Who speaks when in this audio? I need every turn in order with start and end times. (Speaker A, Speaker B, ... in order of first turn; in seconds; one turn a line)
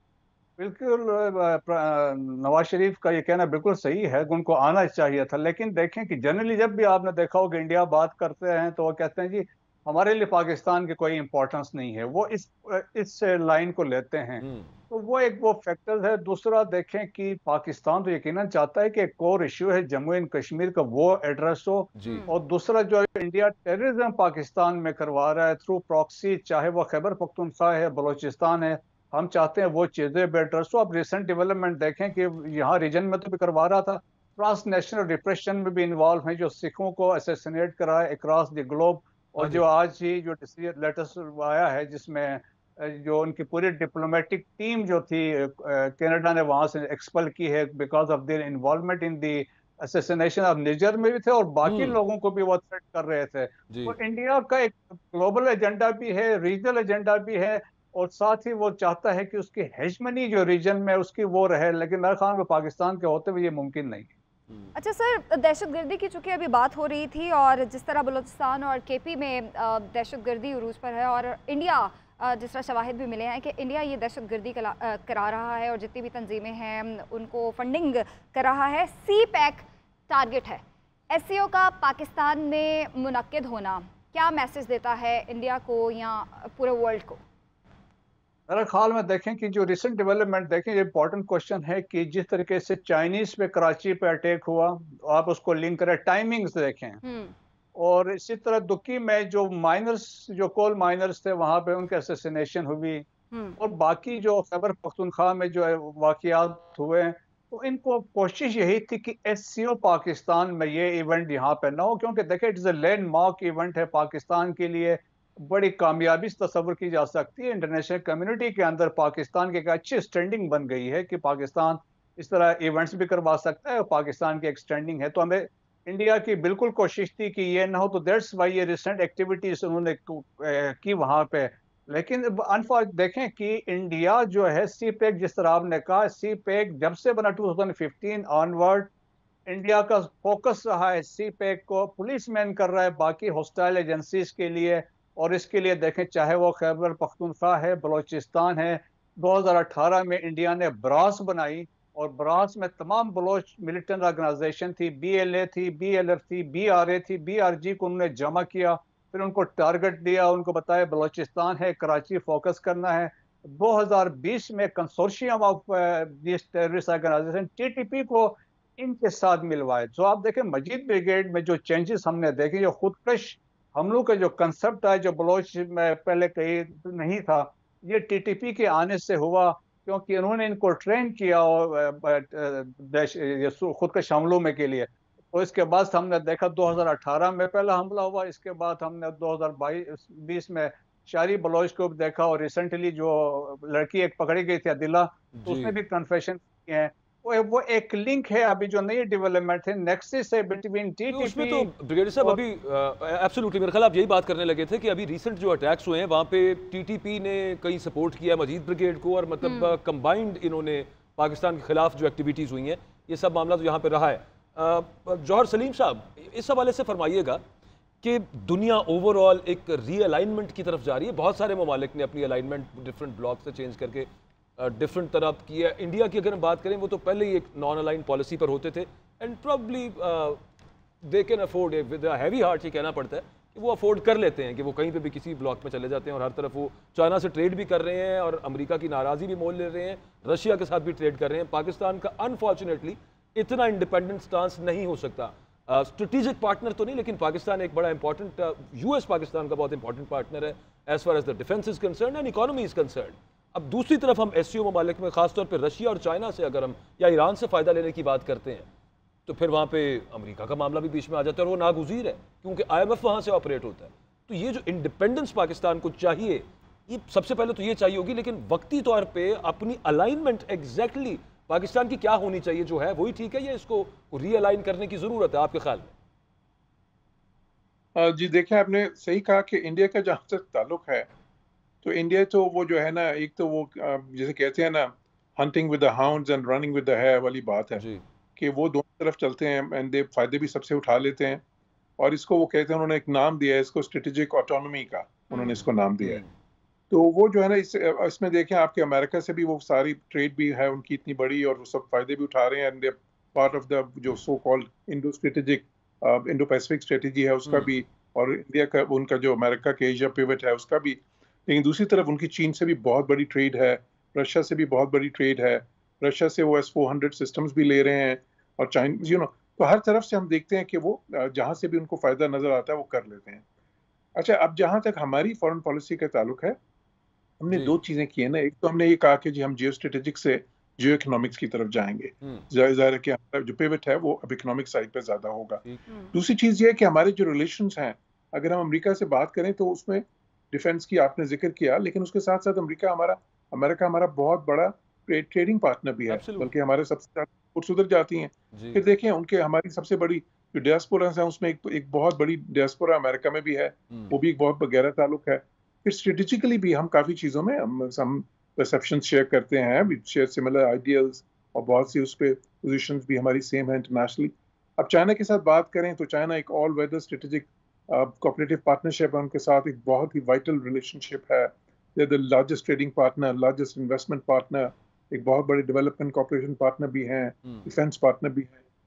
Speaker A: 0.6-64.1
Speaker B: 14.4-14.7
Speaker B: 21.9-22.3
Speaker B: 39.4-39.6
Speaker B: 51.6-52.0
Speaker B: 53.7-54.0
Speaker C: 64.7-87.2
Speaker A: 88.5-97.0
Speaker C: 97.0-97.3
Speaker A: 97.7-103.1
Speaker C: 103.3-103.6
Speaker A: 103.6-138.9
Speaker A: 139.5-201.7
Speaker B: 195.4-195.8
Speaker B: 201.1-217.4
Speaker C: 209.4-209.7
Speaker B: 218.0-230.4
Speaker B: 231.0-258.7
Speaker B: 259.3-275.9
Speaker D: 277.9-281.1
Speaker D: 281.8-287.9
Speaker D: 288.4-291.4
Speaker D: 292.0-296.2
Speaker B: 295.4-296.2
Speaker D: 296.9-323.4
Speaker D: 324.1-326.6
Speaker D: 327.4-335.6
Speaker B: 327.5-327.8
Speaker D: 336.1-378.5
Speaker B: 346.1-346.5
Speaker B: 348.5-348.8